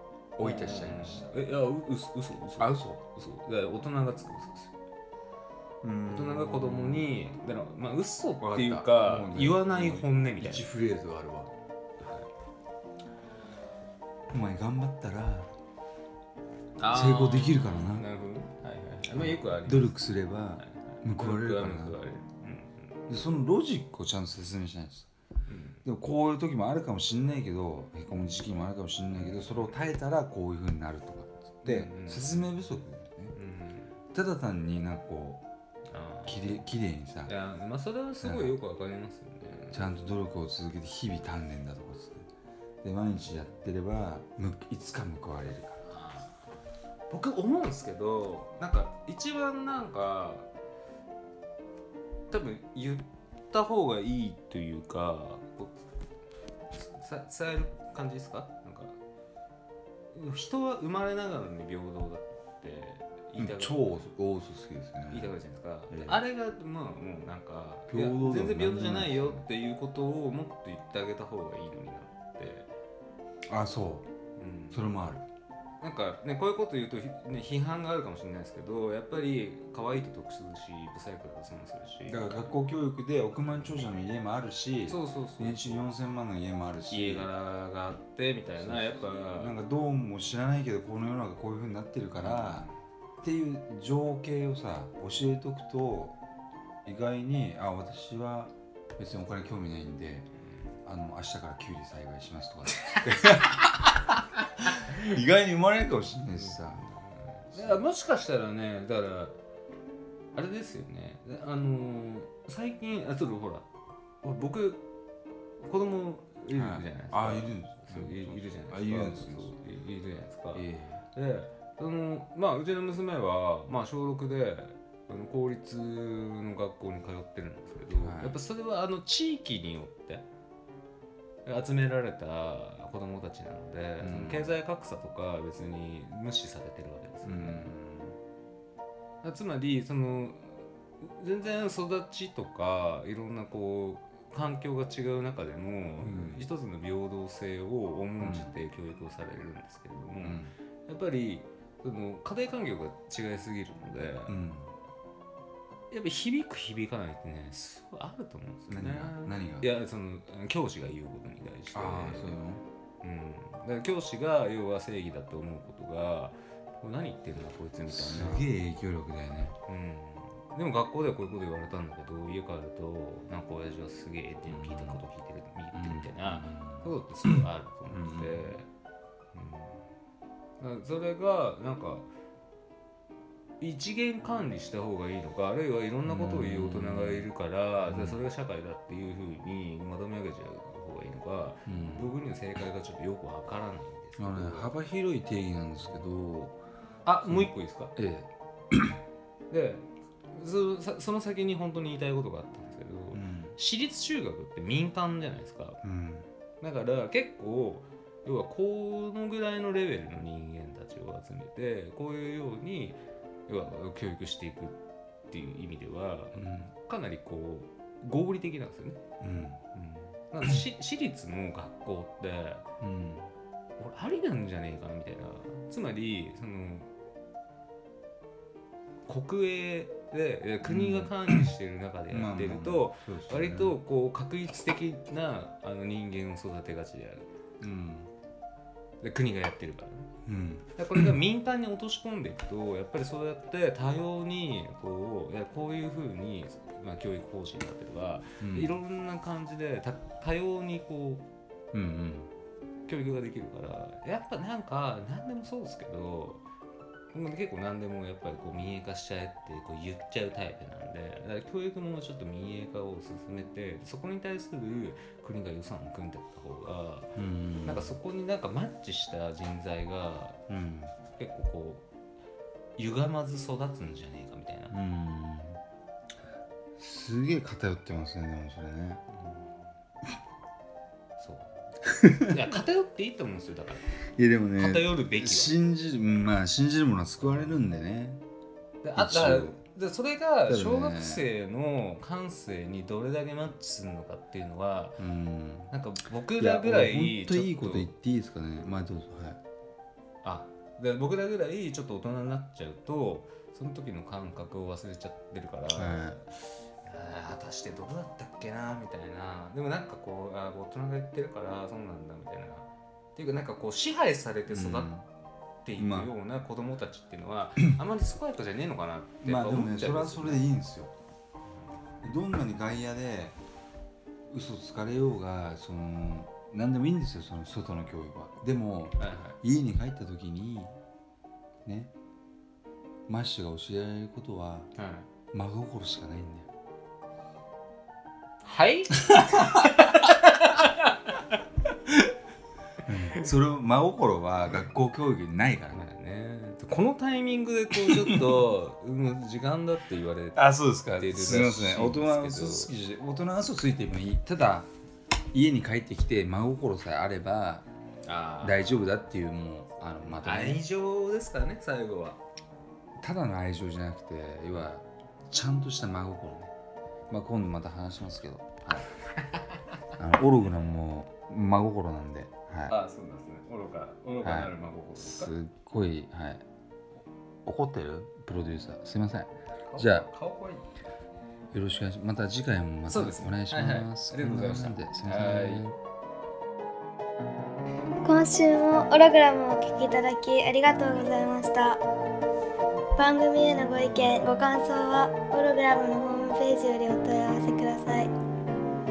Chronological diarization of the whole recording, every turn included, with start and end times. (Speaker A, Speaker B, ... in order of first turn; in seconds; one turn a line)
Speaker A: 0.4-1.3
Speaker B: 0.4-4.7
Speaker A: 2.6-3.0
Speaker A: 5.8-7.1
Speaker B: 6.1-10.7
Speaker A: 8.4-11.5
Speaker B: 12.0-12.3
Speaker A: 14.3-15.5
Speaker B: 16.8-20.0
Speaker A: 16.9-18.1
Speaker A: 19.1-22.0
Speaker B: 20.6-22.9
Speaker A: 23.1-25.1
Speaker B: 25.5-25.8
Speaker A: 25.8-33.4
Speaker B: 31.6-32.6
Speaker B: 33.3-33.9
Speaker A: 34.1-35.4
Speaker B: 35.9-36.6
Speaker A: 36.3-37.3
Speaker B: 37.3-39.9
Speaker A: 38.2-38.6
Speaker A: 39.7-42.3
Speaker A: 42.8-45.9
Speaker B: 45.9-46.3
Speaker B: 47.1-50.5
Speaker B: 52.3-55.8
Speaker B: 56.7-59.0
Speaker B: 60.1-64.0
Speaker A: 63.4-65.3
Speaker B: 65.1-72.7
Speaker A: 65.9-66.2
Speaker A: 67.9-69.4
Speaker A: 73.5-74.1
Speaker B: 74.4-74.9
Speaker A: 74.7-75.2
Speaker B: 75.8-82.5
Speaker A: 82.1-87.3
Speaker B: 84.9-85.8
Speaker B: 86.9-89.5
Speaker A: 88.6-92.7
Speaker B: 92.2-92.8
Speaker A: 93.2-96.2
Speaker A: 96.8-100.3
Speaker A: 100.8-104.1
Speaker B: 102.9-103.6
Speaker A: 104.7-106.9
Speaker B: 106.4-109.3
Speaker A: 107.5-107.8
Speaker B: 110.3-113.7
Speaker B: 114.2-114.8
Speaker B: 115.6-130.2
Speaker A: 116.5-119.6
Speaker A: 120.5-121.0
Speaker A: 127.9-128.4
Speaker B: 131.4-137.7
Speaker A: 134.0-134.6
Speaker A: 137.2-138.2
Speaker B: 139.2-154.4
Speaker A: 146.0-146.4
Speaker A: 148.2-148.5
Speaker A: 150.2-150.5
Speaker A: 154.3-154.7
Speaker B: 155.9-162.4
Speaker A: 158.7-159.7
Speaker A: 161.7-162.7
Speaker B: 163.0-168.5
Speaker A: 167.9-169.6
Speaker B: 169.7-178.7
Speaker A: 174.5-175.0
Speaker A: 175.7-178.5
Speaker B: 179.3-179.8
Speaker B: 180.6-182.1
Speaker B: 183.6-194.7
Speaker A: 186.1-187.3
Speaker A: 187.9-188.2
Speaker A: 191.7-192.1
Speaker A: 194.2-196.6
Speaker B: 197.1-197.9
Speaker A: 197.2-199.0
Speaker B: 199.5-205.8
Speaker A: 203.1-203.6
Speaker A: 205.8-206.3
Speaker B: 206.6-214.8
Speaker B: 215.3-219.0
Speaker A: 216.3-216.7
Speaker A: 219.2-219.6
Speaker B: 219.7-222.7
Speaker A: 222.8-223.3
Speaker B: 223.8-226.9
Speaker B: 229.1-237.3
Speaker A: 230.7-231.5
Speaker A: 232.1-233.8
Speaker A: 237.6-238.1
Speaker B: 239.0-240.1
Speaker A: 240.3-241.2
Speaker B: 240.8-251.2
Speaker A: 248.4-248.8
Speaker A: 251.7-252.3
Speaker B: 252.9-256.4
Speaker B: 257.1-270.4
Speaker A: 267.2-268.0
Speaker A: 270.5-270.9
Speaker B: 271.2-271.9
Speaker B: 272.8-274.8
Speaker A: 274.7-275.6
Speaker A: 276.8-279.0
Speaker B: 279.1-279.6
Speaker B: 281.2-281.6
Speaker A: 281.9-282.4
Speaker B: 282.2-283.9
Speaker A: 284.1-288.2
Speaker B: 284.6-285.6
Speaker B: 287.2-287.6
Speaker B: 288.8-295.0
Speaker A: 289.0-289.6
Speaker A: 290.5-291.2
Speaker A: 295.0-295.7
Speaker B: 295.7-297.9
Speaker A: 296.4-299.4
Speaker B: 300.2-314.9
Speaker A: 305.7-306.2
Speaker A: 314.5-315.1
Speaker B: 315.6-320.4
Speaker A: 315.8-316.1
Speaker A: 319.2-320.9
Speaker A: 322.0-323.4
Speaker A: 324.3-330.8
Speaker B: 329.0-329.4
Speaker A: 331.6-331.9
Speaker A: 333.1-334.7
Speaker B: 334.8-335.1
Speaker A: 335.3-336.5
Speaker B: 338.4-341.3
Speaker A: 339.1-339.7
Speaker A: 342.9-345.8
Speaker B: 345.7-352.7
Speaker A: 347.7-348.4
Speaker A: 350.4-354.7
Speaker A: 355.3-357.7
Speaker B: 358.1-358.9
Speaker A: 358.4-360.6
Speaker B: 360.0-362.2
Speaker A: 363.0-366.5
Speaker A: 367.1-368.9
Speaker A: 370.0-372.8
Speaker B: 372.7-375.4
Speaker A: 374.2-376.4
Speaker A: 377.4-380.1
Speaker B: 379.7-380.7
Speaker A: 381.5-385.8
Speaker B: 382.9-385.6
Speaker C: 388.0-391.8
Speaker C: 393.0-398.1